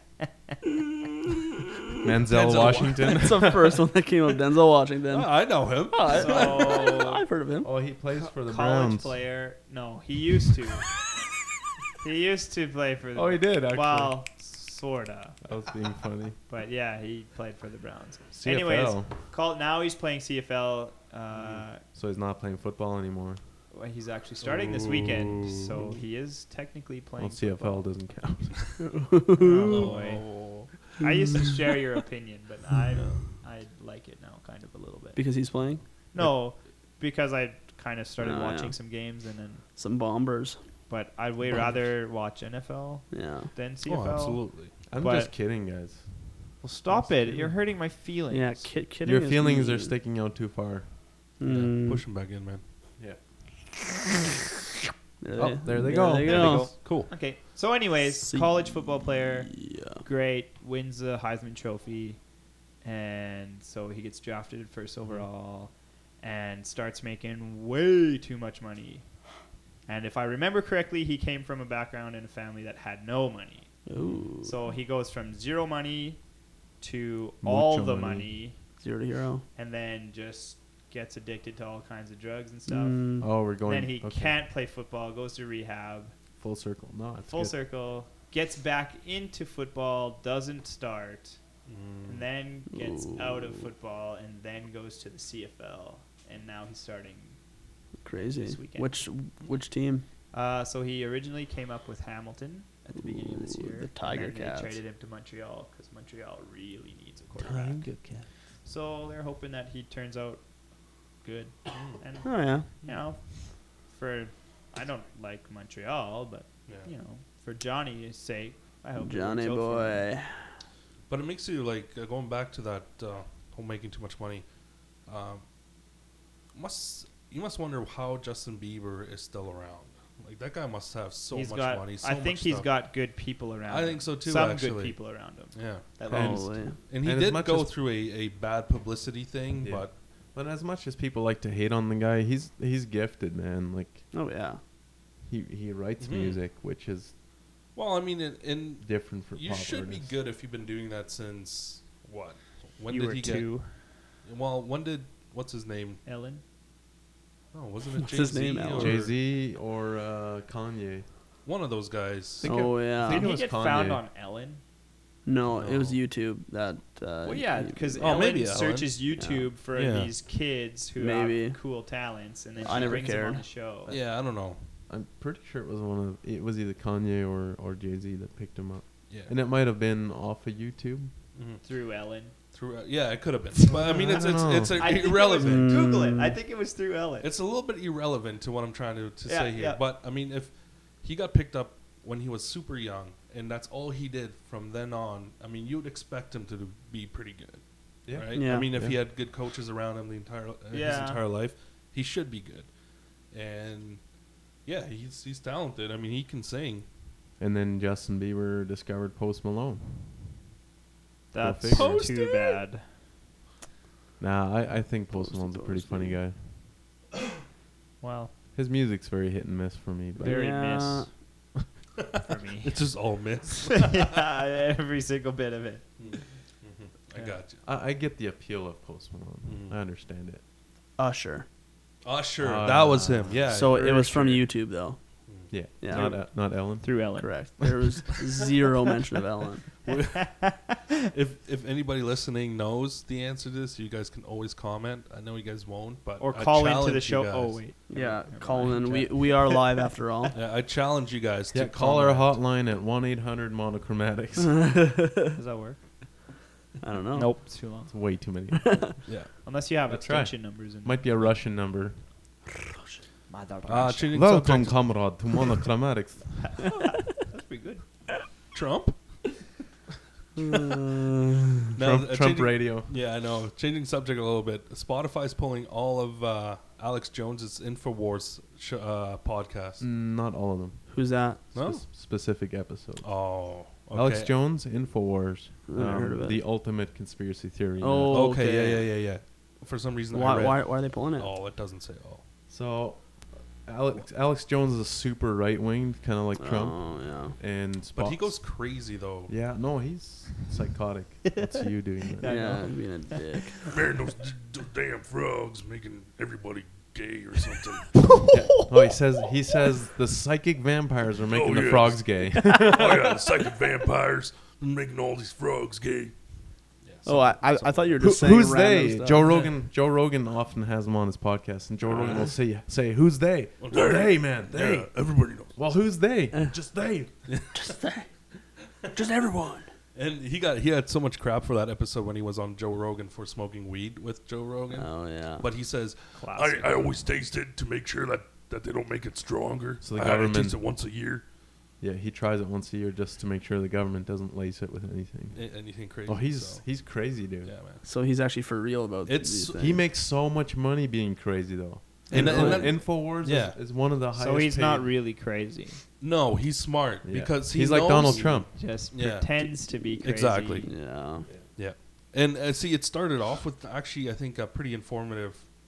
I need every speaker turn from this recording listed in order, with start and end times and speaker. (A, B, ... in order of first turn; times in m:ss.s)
0:02.0-0:03.8 A
0:02.3-0:03.2 B
0:02.5-0:07.7 C
0:05.1-0:07.0 B
0:06.1-0:07.2 D
0:07.6-0:09.2 A
0:08.1-0:10.9 D
0:12.0-0:15.4 D
0:13.2-0:14.2 A
0:15.4-0:16.4 A
0:16.5-0:21.8 D
0:18.3-0:19.2 A
0:21.4-0:23.4 A
0:23.7-0:27.9 D
0:24.4-0:25.7 B
0:27.2-0:28.8 A
0:28.8-0:29.9 C
0:29.4-0:35.2 D
0:29.6-0:30.8 B
0:35.2-0:35.8 C
0:36.1-0:39.6 D
0:38.2-0:38.8 C
0:39.8-0:40.6 C
0:40.9-0:45.3 D
0:43.1-0:43.5 C
0:43.9-0:44.8 B
0:44.9-0:47.4 A
0:46.6-0:48.7 D
0:48.3-0:50.0 C
0:49.0-0:51.0 A
0:51.4-0:52.0 C
0:51.4-0:52.6 B
0:55.2-0:56.7 C
0:55.4-0:56.8 A
0:56.2-1:02.2 D
0:56.2-0:57.1 B
0:58.2-1:00.0 C
1:02.8-1:09.1 D
1:09.9-1:13.7 D
1:13.9-1:14.6 C
1:14.0-1:14.3 B
1:14.4-1:16.2 D
1:16.8-1:18.6 D
1:17.4-1:18.3 A
1:18.8-1:19.4 C
1:19.6-1:26.1 D
1:22.7-1:23.3 C
1:23.2-1:24.4 A
1:26.4-1:27.6 A
1:27.3-1:31.4 D
1:31.7-1:32.2 B
1:32.0-1:37.4 D
1:32.7-1:33.5 C
1:38.0-1:40.1 C
1:38.4-1:39.1 D
1:40.3-1:47.9 D
1:43.0-1:44.8 C
1:47.4-1:48.3 A
1:48.6-1:50.4 D
1:51.2-2:00.1 D
1:51.7-1:52.0 B
1:52.2-1:52.7 C
1:59.0-2:00.5 C
2:01.1-2:04.5 B
2:05.0-2:05.4 B
2:06.5-2:12.8 B
2:11.3-2:16.6 D
2:13.7-2:15.9 B
2:16.1-2:16.8 C
2:16.1-2:17.7 A
2:16.9-2:20.0 B
2:19.6-2:24.1 A
2:24.1-2:24.6 C
2:25.2-2:27.1 A
2:26.0-2:26.4 B
2:27.7-2:33.7 B
2:28.8-2:30.1 A
2:32.9-2:33.9 D
2:34.2-2:36.0 B
2:36.0-2:36.4 D
2:37.5-2:39.2 B
2:38.0-2:39.0 C
2:38.7-2:41.1 A
2:41.4-2:42.5 B
2:42.4-2:44.0 A
2:42.4-2:43.3 C
2:43.1-2:44.6 D
2:45.2-2:48.2 C
2:45.5-2:46.0 B
2:47.2-2:54.0 D
2:48.0-2:49.0 B
2:49.2-2:49.5 C
2:49.7-2:50.1 B
2:51.0-2:51.6 C
2:52.6-2:53.5 C
2:53.9-2:54.3 A
2:53.9-2:54.7 B
2:54.9-3:01.2 A
2:59.1-2:59.4 B
3:01.3-3:05.8 B
3:01.6-3:02.4 D
3:03.7-3:07.3 D
3:04.0-3:04.9 A
3:05.3-3:06.4 C
3:07.2-3:26.9 B
3:09.2-3:09.8 D
3:18.0-3:19.0 A
3:18.3-3:18.7 C
3:20.7-3:21.2 D
3:27.4-3:30.2 A
3:31.3-3:32.9 D
3:31.4-3:32.1 A
3:31.7-3:32.6 B
3:34.2-3:36.6 A
3:35.1-3:36.2 C
3:38.0-3:38.3 D
3:38.6-3:40.6 A
3:40.2-3:41.2 D
3:40.2-3:41.1 C
3:42.2-3:46.2 D
3:42.6-3:44.1 B
3:46.0-3:47.6 B
3:47.1-3:47.4 D
3:47.6-3:50.4 A
3:49.5-3:49.8 B
3:51.0-3:51.5 C
3:52.0-3:55.5 B
3:52.4-3:53.4 A
3:53.5-3:56.2 C
3:55.5-3:57.8 A
3:55.9-3:57.5 D
3:57.2-3:59.6 C
3:59.8-4:00.6 B
4:00.3-4:00.8 D
4:01.1-4:07.6 B
4:06.2-4:09.6 D
4:07.9-4:10.4 C
4:10.3-4:12.5 B
4:11.5-4:14.9 A
4:14.4-4:15.4 C
4:15.4-4:16.0 D
4:16.8-4:17.4 C
4:17.1-4:17.9 D
4:17.9-4:22.1 A
4:19.4-4:21.3 D
4:23.3-4:24.2 D
4:23.6-4:25.1 B
4:24.1-4:26.7 A
4:27.1-4:27.8 D
4:28.5-4:29.3 B
4:30.4-4:31.4 C
4:31.8-4:39.9 B
4:31.8-4:32.9 A
4:39.8-4:48.3 A
4:40.9-4:41.4 C
4:41.5-4:41.9 B
4:43.0-4:44.3 B
4:45.7-4:46.4 C
4:47.8-4:48.9 C
4:48.1-4:52.2 B
4:50.1-4:51.3 C
4:52.5-4:58.8 A
4:56.4-4:57.4 C
4:58.0-4:59.4 B
4:59.3-5:02.7 A
5:02.2-5:03.3 D
5:02.2-5:03.6 C
5:03.6-5:08.1 B
5:08.2-5:08.7 D
5:08.3-5:13.4 A
5:11.3-5:18.5 B
5:17.0-5:19.3 C
5:18.0-5:27.1 A
5:19.3-5:19.5 B
5:21.9-5:22.3 C
5:21.9-5:22.3 B
5:23.6-5:25.6 B
5:27.3-5:27.8 B
5:27.5-5:28.1 C
5:28.9-5:29.7 C
5:30.0-5:41.2 B
5:34.7-5:35.4 C
5:36.1-5:36.8 D
5:39.8-5:40.6 A
5:41.8-5:47.5 A
5:45.3-5:47.8 B
5:47.8-5:49.8 C
5:49.1-5:49.7 B
5:49.6-5:54.9 A
5:52.1-5:52.7 C
5:52.1-5:53.6 B
5:54.1-5:55.8 D
5:56.0-6:00.9 B
5:57.0-5:58.5 A
5:58.5-6:00.8 D
6:00.6-6:01.3 C
6:01.4-6:05.5 B